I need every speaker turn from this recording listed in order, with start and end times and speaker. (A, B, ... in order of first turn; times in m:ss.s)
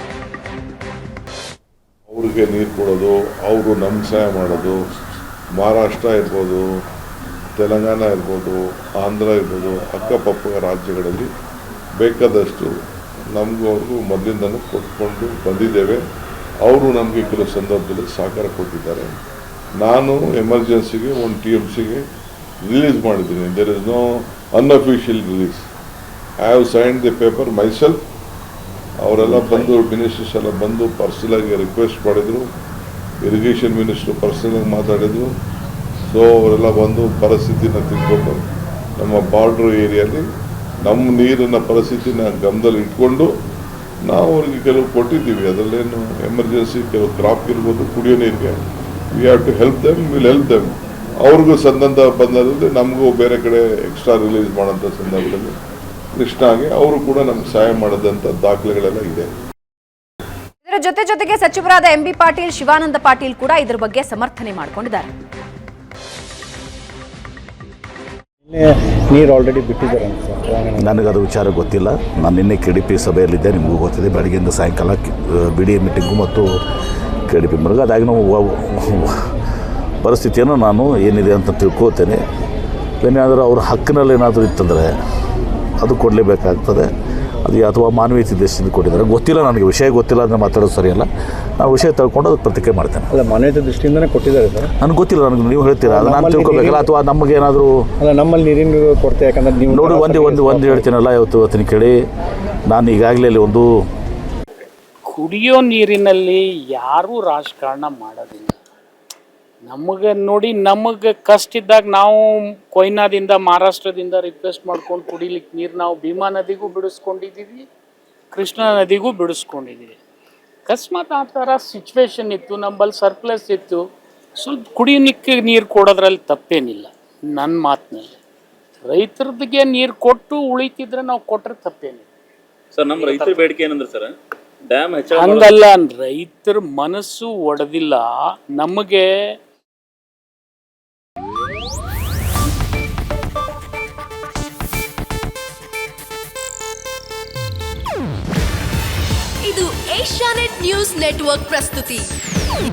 0:02.1-0:04.8 A
0:05.6-0:06.6 A
0:07.6-0:11.3 A
0:12.0-0:12.7 A
0:13.3-0:16.0 A
0:16.6-0:19.1 A
0:19.8-0:22.0 A
0:22.7-0:25.6 A
0:26.4-0:28.0 A
0:29.0-0:32.4 A
0:33.2-0:35.3 A
0:36.1-0:38.4 A
0:39.0-0:40.2 A
0:40.8-0:43.3 A
0:44.1-0:48.6 A
0:49.1-0:50.7 A
0:51.2-0:55.5 A
0:56.2-0:59.3 A
1:00.6-1:05.1 B
1:08.5-1:10.9 C
1:10.8-1:16.6 D
1:17.3-1:19.2 D
1:20.0-1:22.2 D
1:23.0-1:24.9 D
1:25.8-1:26.9 D
1:27.4-1:31.1 D
1:31.6-1:33.1 D
1:33.1-1:34.7 C
1:34.8-1:37.8 D
1:35.8-1:36.9 C
1:38.0-1:40.9 C
1:39.7-1:42.0 D
1:42.7-1:43.7 D
1:45.1-1:48.6 E
1:49.7-1:57.7 E
1:58.3-2:00.0 E
2:00.7-2:03.8 E
2:04.4-2:08.2 E
2:08.8-2:12.1 E
2:12.7-2:14.1 F
2:13.0-2:13.4 E
2:14.7-2:15.6 F
2:15.1-2:19.1 E
2:29.4-2:32.1 G